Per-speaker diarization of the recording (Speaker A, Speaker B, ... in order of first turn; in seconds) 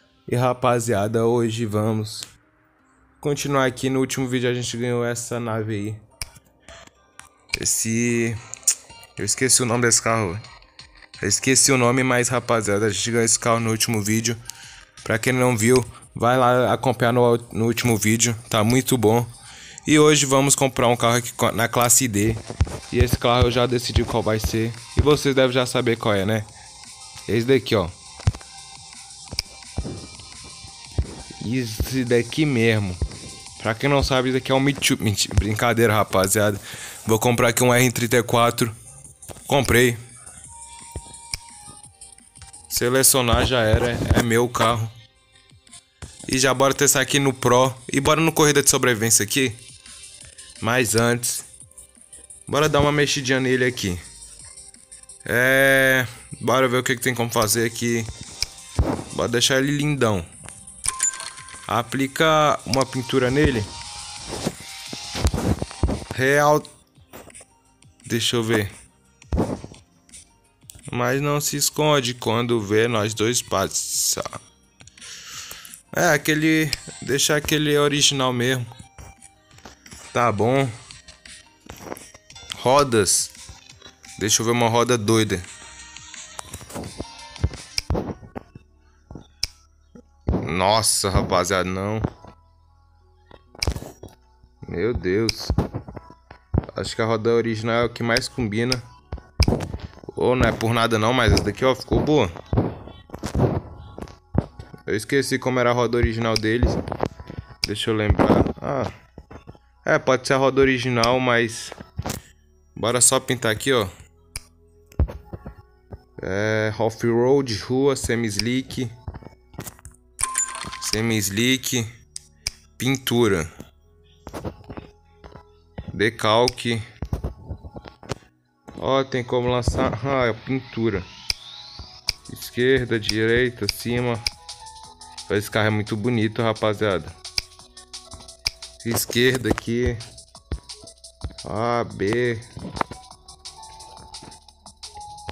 Speaker A: 0.3-2.3, 3.2-6.0, 7.5-8.4, 9.2-10.4, 11.2-14.4, 15.0-19.3, 19.9-26.5, 27.3-27.9, 31.4-33.0, 33.6-38.7, 39.5-40.0, 42.7-44.9, 46.3-49.6, 50.6-51.5, 52.5-54.0, 55.2-58.1, 59.1-60.3, 61.7-63.7, 66.1-66.7, 68.1-68.7, 70.9-74.3, 75.9-78.7, 80.1-80.7, 82.6-83.3, 84.2-85.5, 90.4-92.1, 94.7-95.5, 96.7-98.8, 100.1-102.3, 104.9-106.8, 107.6-108.9, 109.8-111.8, 112.8-113.9, 116.2-118.9, 120.8-121.9, 122.8-123.5, 125.9-126.8, 128.8-131.1, 132.3-134.2, 135.3-137.1, 138.8-140.0, 141.4-142.4